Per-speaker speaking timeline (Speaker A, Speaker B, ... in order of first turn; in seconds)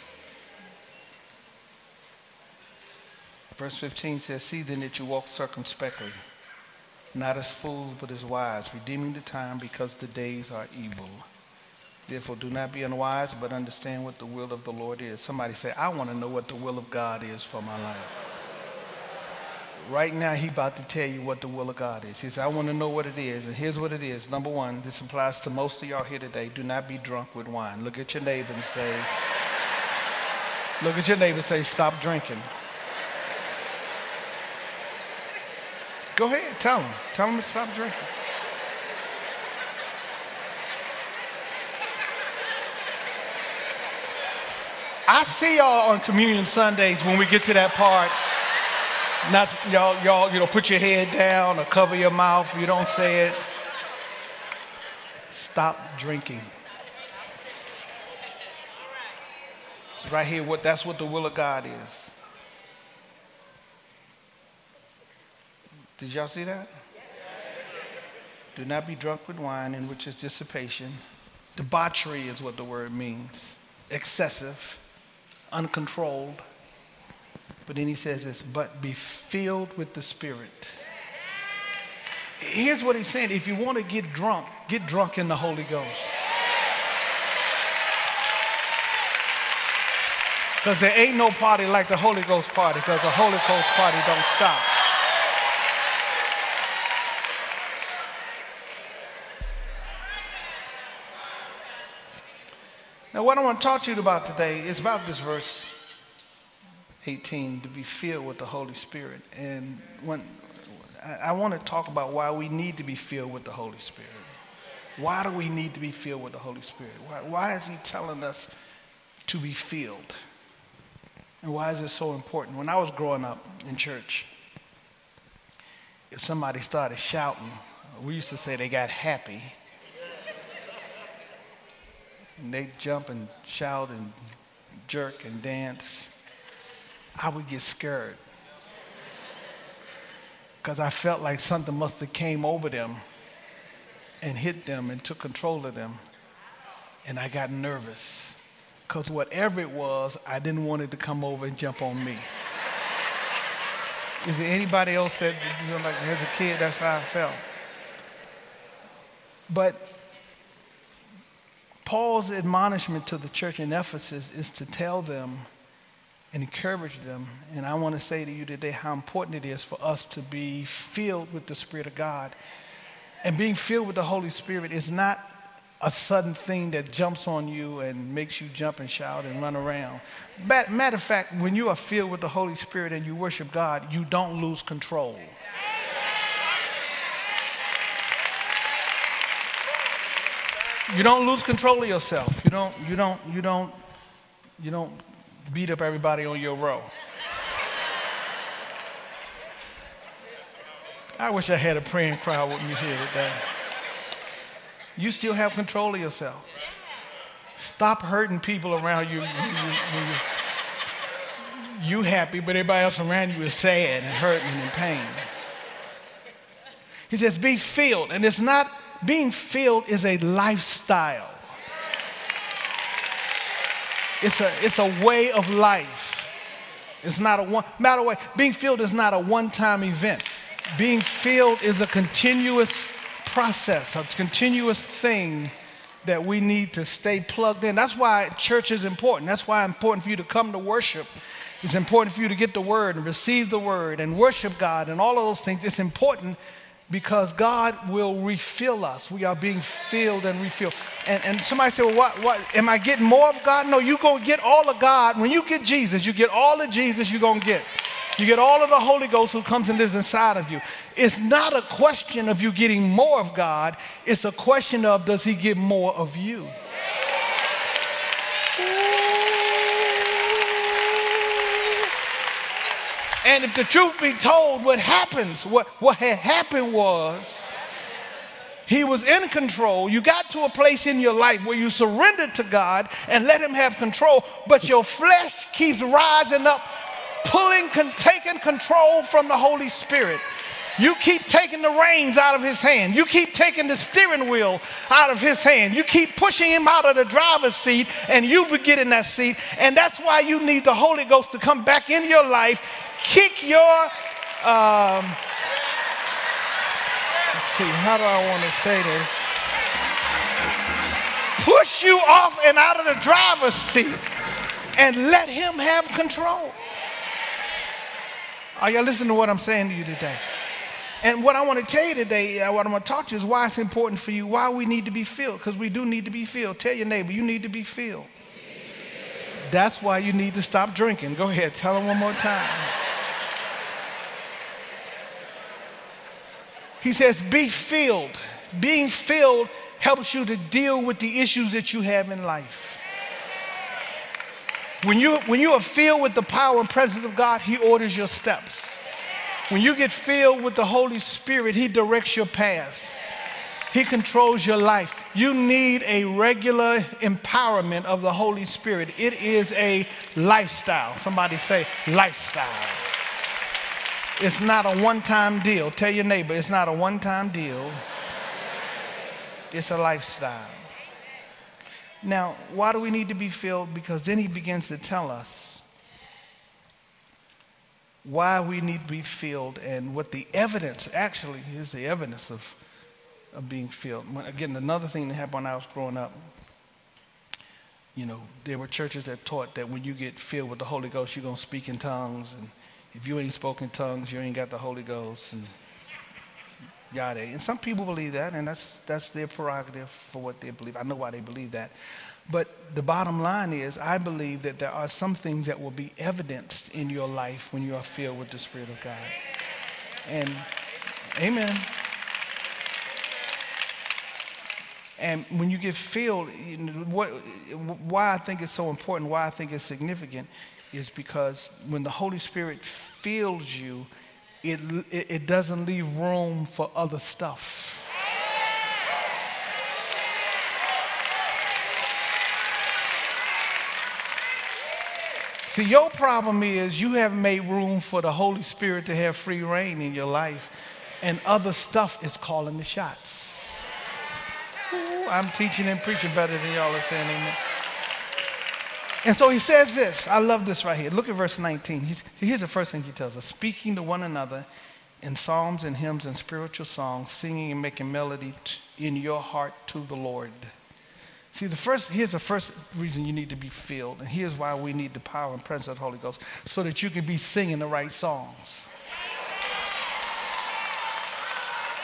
Speaker A: 3.6-6.2, 7.1-11.3, 12.1-18.2, 19.8-29.1, 30.8-32.5, 36.2-38.1, 45.1-48.1, 49.2-53.4, 55.3-56.5, 60.0-62.1, 66.0-66.7, 68.5-71.0, 71.6-74.8, 75.5-76.4, 77.7-80.8, 82.4-86.1, 90.6-94.7, 103.1-105.8, 107.0-114.3, 115.0-118.5, 119.3-120.2, 121.4-124.3, 126.1-129.6, 132.4-134.2, 134.9-136.1, 137.2-138.2, 140.6-143.0, 144.2-146.0, 147.1-148.4, 148.9-152.3, 154.2-157.5, 159.5-159.9, 161.8-165.5, 166.3-172.3, 173.2-185.4, 190.9-193.8, 194.6-196.9, 201.2-203.4, 205.0-206.5, 207.6-210.2, 211.4-215.3, 217.1-221.4, 224.2-226.3, 227.0-241.1, 241.6-246.4, 246.9-266.6, 268.6-271.8, 273.2-277.4, 278.7-290.2, 290.8-305.2, 307.3-309.3, 311.4-314.0, 314.8-316.6, 318.6-320.2, 321.0-328.1, 329.5-332.7, 336.8-342.8, 344.8-348.8, 349.5-353.0, 353.7-362.8, 364.2-367.8, 369.5-370.6, 372.0-375.6, 378.0-382.6, 383.3-386.3, 387.9-395.5, 396.9-401.7, 402.3-409.1, 410.1-410.5, 411.1-411.7, 415.0-423.9, 424.4-427.8, 435.4-440.5, 441.0-443.4, 444.7-447.4, 449.0-454.5, 455.0-460.5, 461.3-468.7